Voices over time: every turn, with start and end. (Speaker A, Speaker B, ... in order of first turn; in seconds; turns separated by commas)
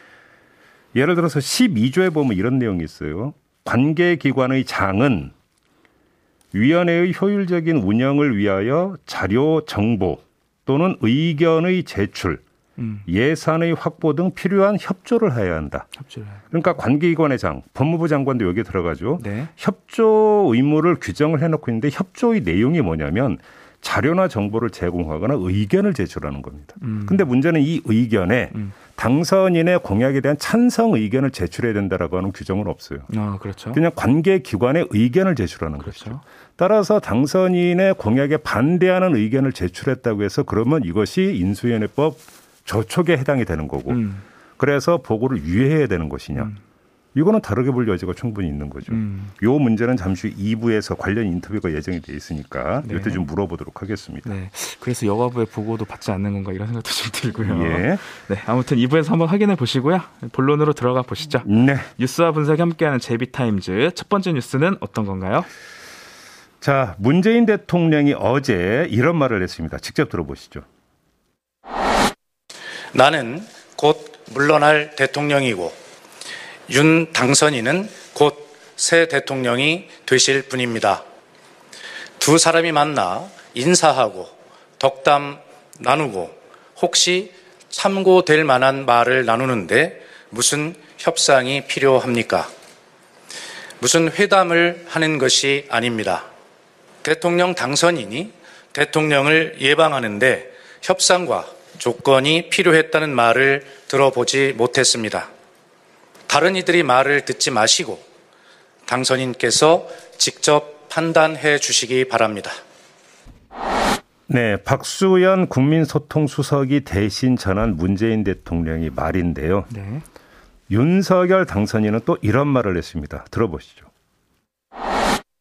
Speaker A: 0.9-5.3, Speaker A: 6.5-12.4, Speaker B: 12.8-13.0, Speaker A: 13.1-15.9, Speaker B: 16.0-16.4, Speaker A: 16.5-33.1, Speaker B: 19.2-19.5, Speaker B: 26.8-27.2, Speaker B: 33.1-33.8, Speaker A: 33.7-44.0, Speaker B: 35.8-36.2, Speaker B: 43.9-44.2, Speaker A: 44.6-46.5, Speaker B: 46.3-46.6, Speaker A: 47.1-54.3, Speaker B: 48.9-49.3, Speaker B: 52.8-53.2, Speaker B: 54.2-65.5, Speaker A: 57.4-58.0, Speaker A: 61.4-61.9, Speaker A: 66.6-70.6, Speaker C: 72.9-75.8, Speaker C: 76.7-81.0, Speaker C: 82.2-92.5, Speaker C: 93.8-96.2, Speaker C: 97.0-105.3, Speaker C: 106.3-108.0, Speaker C: 108.9-112.6, Speaker A: 114.3-119.7, Speaker B: 119.7-120.0, Speaker A: 120.7-123.9